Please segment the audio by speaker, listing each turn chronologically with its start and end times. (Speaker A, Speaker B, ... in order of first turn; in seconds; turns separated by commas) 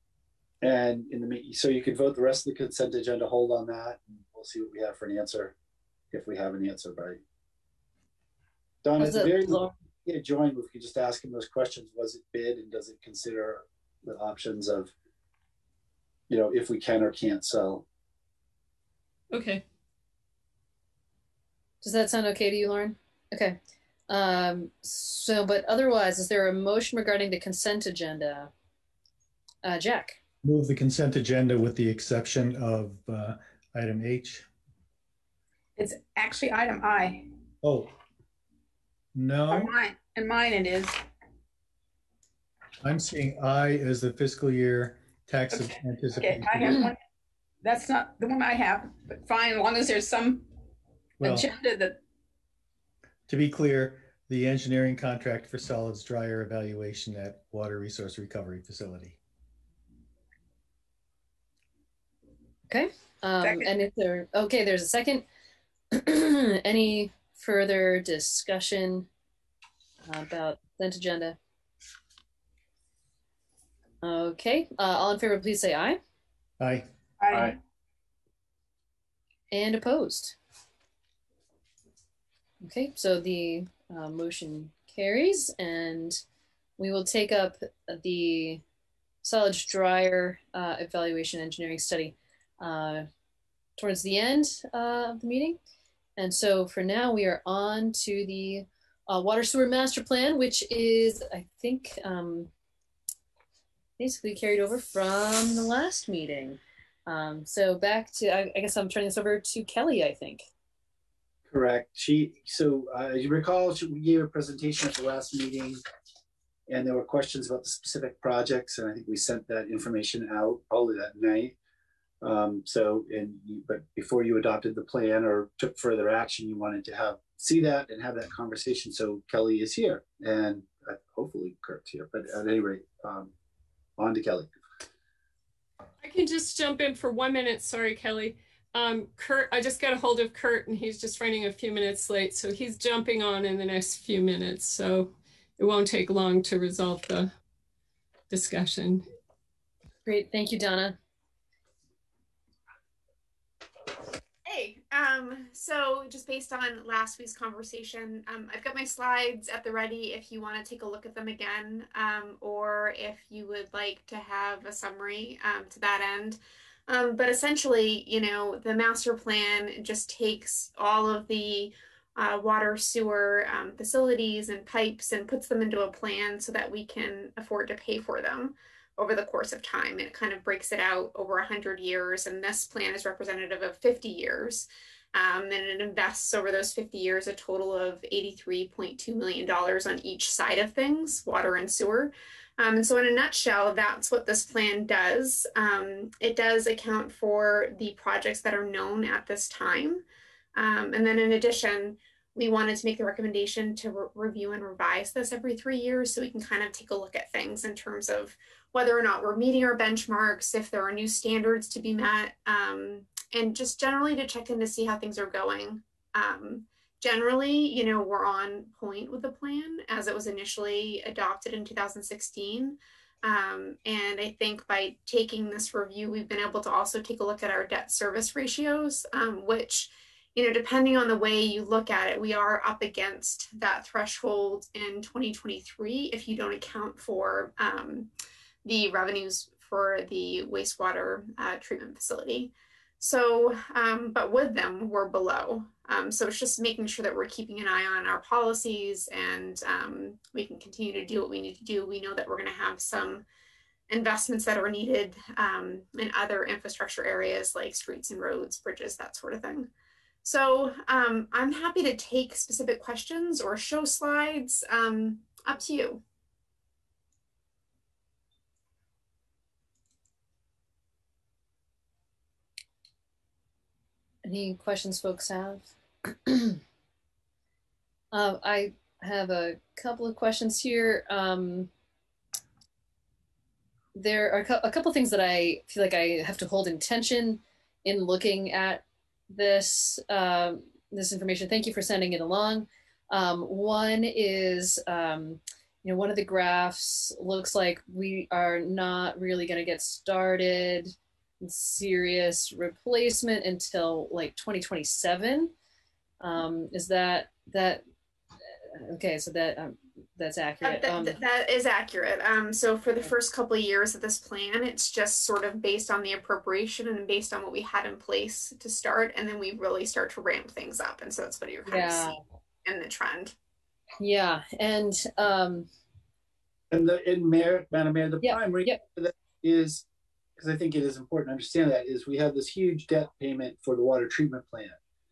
Speaker A: 0.6-5.5, Speaker A: 6.1-7.2, Speaker A: 8.8-14.9, Speaker B: 9.0-9.7, Speaker A: 16.3-17.8, Speaker C: 19.3-19.6, Speaker B: 21.8-23.6, Speaker B: 24.1-28.5, Speaker B: 29.6-30.2, Speaker D: 30.4-34.5, Speaker E: 35.8-37.3, Speaker D: 37.6-37.9, Speaker D: 39.1-39.7, Speaker E: 39.5-41.0, Speaker D: 42.8-46.8, Speaker E: 45.5-47.0, Speaker E: 47.6-50.5, Speaker D: 51.2-51.5, Speaker E: 51.2-52.0, Speaker D: 53.3-59.2, Speaker B: 62.7-65.2, Speaker E: 63.4-63.7, Speaker B: 65.9-69.1, Speaker B: 70.0-71.4, Speaker B: 74.0-76.0, Speaker D: 76.6-77.5, Speaker E: 77.2-77.6, Speaker B: 79.5-80.3, Speaker B: 82.6-86.2, Speaker B: 86.8-88.6, Speaker B: 89.2-93.1, Speaker B: 93.8-95.6, Speaker B: 96.2-102.5, Speaker B: 104.0-110.5, Speaker A: 111.5-115.8, Speaker A: 116.7-121.5, Speaker A: 122.2-133.3, Speaker A: 134.0-134.5, Speaker C: 136.0-147.3, Speaker C: 148.3-149.0, Speaker B: 150.1-150.9, Speaker F: 154.4-200.0, Speaker F: 200.5-238.1, Speaker F: 238.6-253.2, Speaker F: 253.9-259.7, Speaker F: 260.2-266.0, Speaker B: 274.2-276.6, Speaker B: 278.1-281.7, Speaker B: 283.9-305.5, Speaker B: 306.2-307.8, Speaker B: 308.8-311.2, Speaker F: 310.6-323.3, Speaker B: 321.6-322.1, Speaker B: 324.0-325.7, Speaker A: 326.7-329.8, Speaker B: 328.2-328.8, Speaker A: 330.4-334.8